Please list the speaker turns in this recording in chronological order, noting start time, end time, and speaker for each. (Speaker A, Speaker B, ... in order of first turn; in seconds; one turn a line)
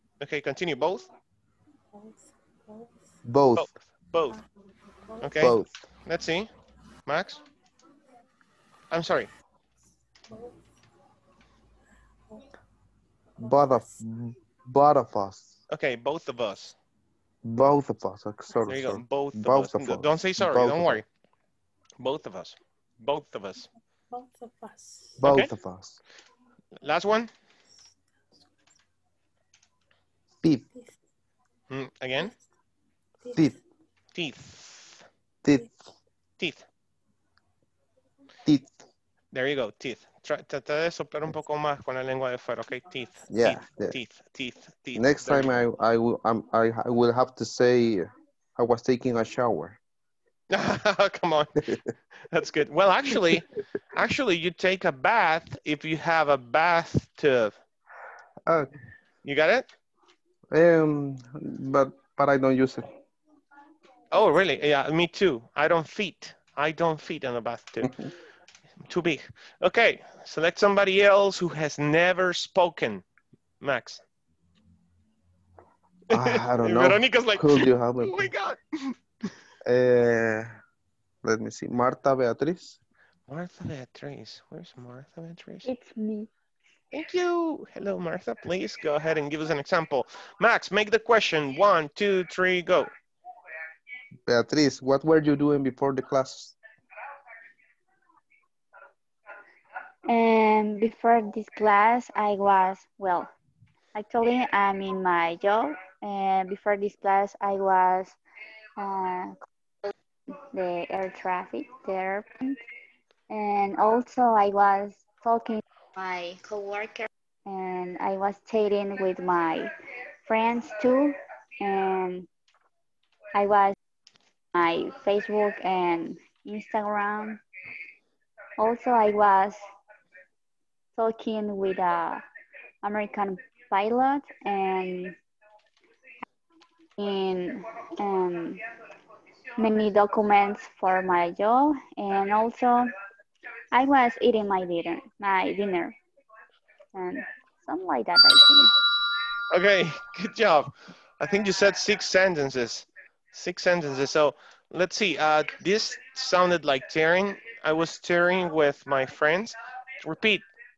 Speaker A: 0.2-1.1
Speaker B: 1.9-2.9
Speaker C: 3.2-3.7
Speaker A: 3.5-4.4
Speaker A: 5.2-6.5
Speaker C: 5.4-5.7
Speaker A: 7.1-7.4
Speaker A: 8.9-9.3
Speaker C: 13.4-15.6
Speaker A: 15.7-16.8
Speaker C: 17.4-21.0
Speaker A: 18.7-21.1
Speaker A: 22.0-23.7
Speaker B: 24.1-25.1
Speaker C: 25.2-26.0
Speaker A: 25.2-25.5
Speaker A: 26.8-27.3
Speaker A: 31.7-32.3
Speaker C: 33.3-33.6
Speaker A: 34.1-35.0
Speaker C: 35.4-35.7
Speaker A: 36.4-36.6
Speaker C: 38.5-38.7
Speaker A: 39.3-45.7
Speaker C: 43.3-44.0
Speaker C: 44.9-49.8
Speaker A: 50.5-51.5
Speaker A: 52.3-57.6
Speaker A: 59.2-59.7
Speaker C: 60.5-62.9
Speaker A: 64.1-67.9
Speaker A: 68.8-73.0
Speaker A: 73.6-74.0
Speaker C: 76.1-78.3
Speaker A: 76.2-79.0
Speaker C: 79.7-80.5
Speaker C: 81.2-82.8
Speaker A: 83.3-85.7
Speaker D: 85.7-86.3
Speaker A: 86.9-92.9
Speaker C: 94.3-96.5
Speaker D: 100.1-103.3
Speaker D: 104.0-108.2
Speaker D: 108.8-109.3
Speaker D: 110.5-112.6
Speaker D: 113.3-119.7
Speaker D: 120.3-122.3
Speaker D: 123.3-123.8
Speaker D: 124.5-127.4
Speaker D: 128.6-129.6
Speaker D: 131.0-132.2
Speaker D: 132.8-135.2
Speaker D: 137.0-138.6
Speaker D: 139.6-142.9
Speaker D: 143.7-146.0
Speaker D: 146.9-148.7
Speaker A: 149.5-160.4